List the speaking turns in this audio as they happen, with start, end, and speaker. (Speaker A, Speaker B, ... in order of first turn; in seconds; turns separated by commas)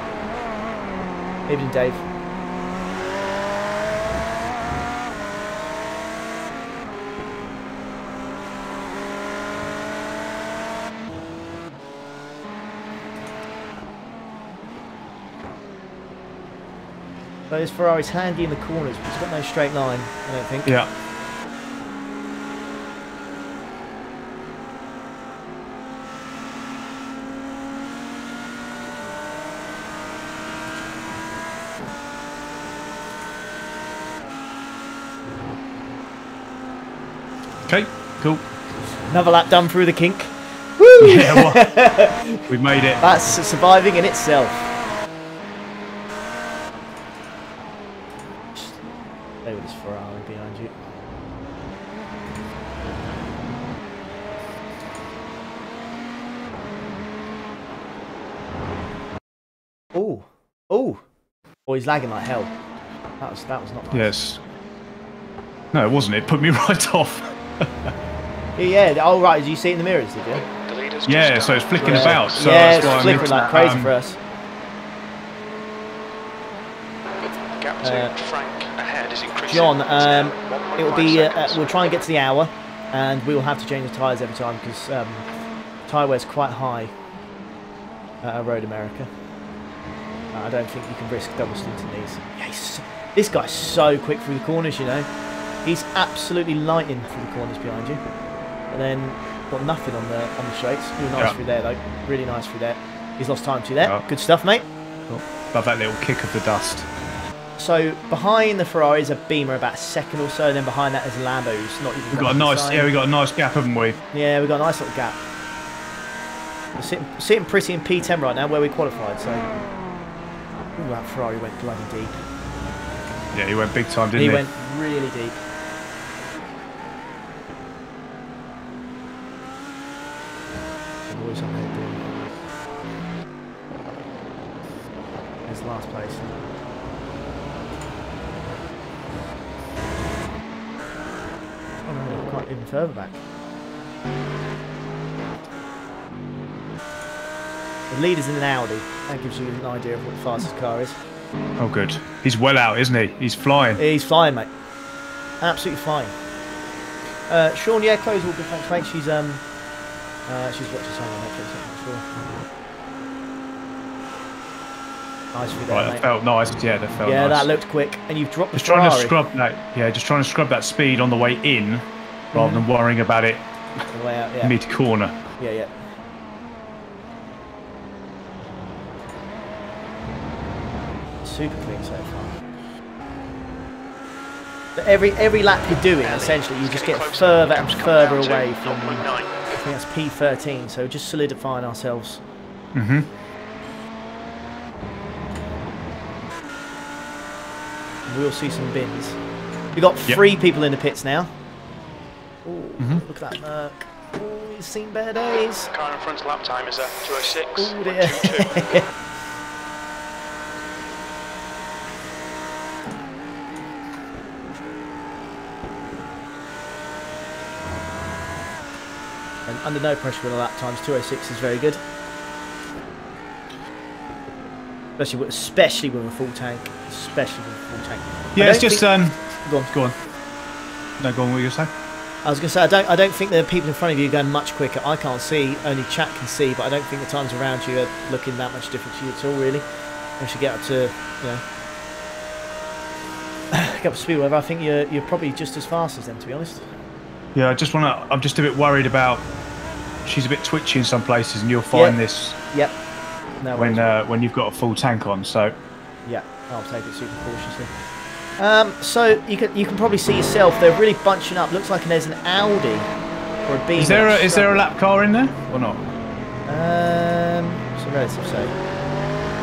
Speaker A: 1.5-2.0, Speaker A: 17.5-20.8, Speaker B: 37.7-38.4, Speaker A: 39.1-42.5, Speaker B: 41.0-41.8, Speaker B: 42.5-43.0, Speaker A: 43.0-44.7, Speaker A: 49.4-50.7, Speaker A: 59.9-61.0, Speaker A: 61.6-62.5, Speaker A: 63.2-64.1, Speaker B: 63.9-64.4, Speaker B: 65.7-67.9, Speaker A: 68.6-70.4, Speaker C: 70.5-73.5, Speaker B: 71.0-73.9, Speaker A: 71.8-74.2, Speaker C: 77.6-81.6, Speaker A: 77.8-78.1, Speaker A: 79.5-85.3, Speaker A: 85.9-86.9, Speaker A: 88.2-89.1, Speaker A: 90.3-95.1, Speaker A: 95.6-98.0, Speaker A: 98.7-104.6, Speaker B: 105.0-106.9, Speaker A: 107.6-112.9, Speaker B: 112.1-114.0, Speaker A: 114.1-115.2, Speaker A: 116.8-119.5, Speaker A: 120.8-122.1, Speaker B: 123.3-124.4, Speaker A: 124.1-125.4, Speaker A: 131.1-132.1, Speaker A: 135.4-136.4, Speaker A: 141.8-143.2, Speaker A: 147.9-151.0, Speaker B: 151.6-153.8, Speaker A: 153.8-154.5, Speaker A: 155.4-156.1, Speaker A: 157.3-159.4, Speaker A: 160.3-162.0, Speaker A: 165.3-166.1, Speaker B: 165.7-167.5, Speaker A: 167.0-169.2, Speaker B: 168.5-173.4, Speaker A: 172.3-172.6, Speaker A: 173.9-174.6, Speaker B: 174.4-175.1, Speaker A: 175.4-175.7, Speaker A: 181.2-182.4, Speaker A: 184.8-192.2, Speaker C: 186.0-189.4, Speaker B: 192.7-193.1, Speaker A: 198.1-199.2, Speaker A: 199.7-201.3, Speaker A: 202.4-205.7, Speaker C: 205.7-208.7, Speaker A: 207.6-208.8, Speaker A: 219.4-221.8, Speaker A: 225.0-229.7, Speaker B: 228.3-229.9, Speaker B: 231.0-231.7, Speaker A: 232.2-239.6, Speaker A: 240.2-241.4, Speaker A: 243.5-246.7, Speaker B: 247.3-249.2, Speaker B: 250.0-252.4, Speaker A: 251.7-252.0, Speaker A: 252.5-252.8, Speaker A: 253.4-253.9, Speaker B: 253.6-255.5, Speaker A: 256.1-257.7, Speaker A: 258.4-262.9, Speaker A: 263.4-264.7, Speaker B: 263.8-265.8, Speaker A: 266.5-268.6